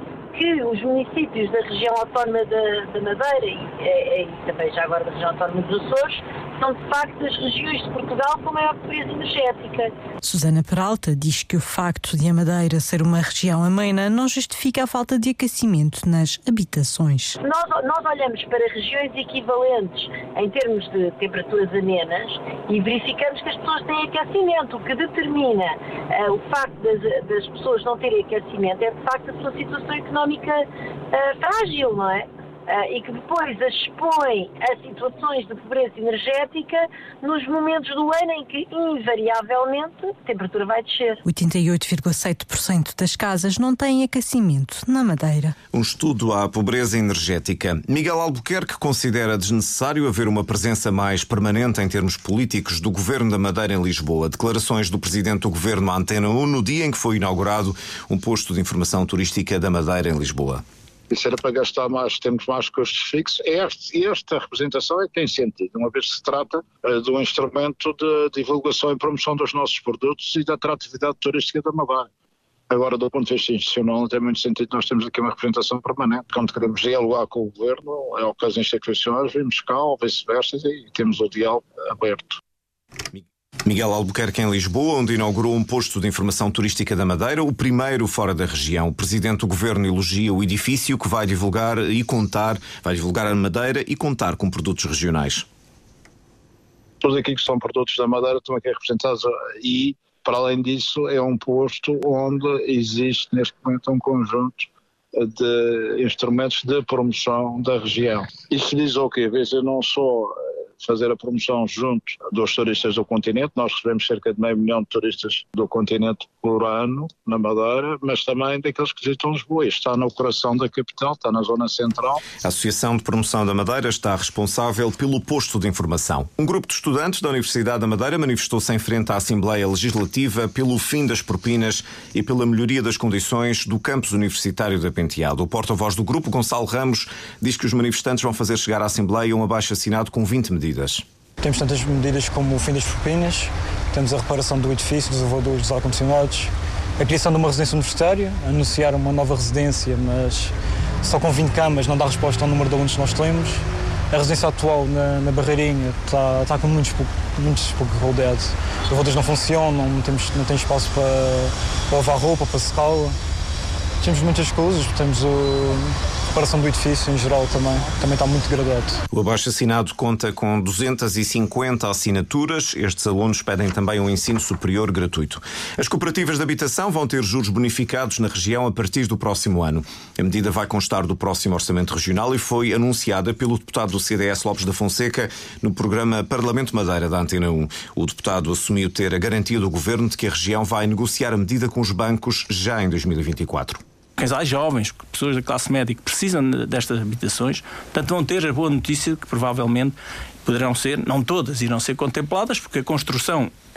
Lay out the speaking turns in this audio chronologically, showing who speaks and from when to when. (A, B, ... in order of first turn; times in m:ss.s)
0:00.3-0:09.9 A
0:10.2-0:17.3 B
0:17.4-0:41.2 A
0:41.2-0:45.5 B
0:45.7-1:00.6 C
1:01.1-1:12.1 D
1:12.7-1:22.4 D
1:23.1-1:35.4 C
1:37.0-2:02.2 D
2:02.4-2:21.0 C
2:21.4-2:26.5 E
2:27.0-2:30.5 E
2:31.0-2:33.6 E
2:34.1-2:43.1 E
2:44.0-2:45.8 E
2:46.4-2:48.9 E
2:49.1-3:13.8 C
3:14.2-3:19.9 F
3:20.4-3:23.5 F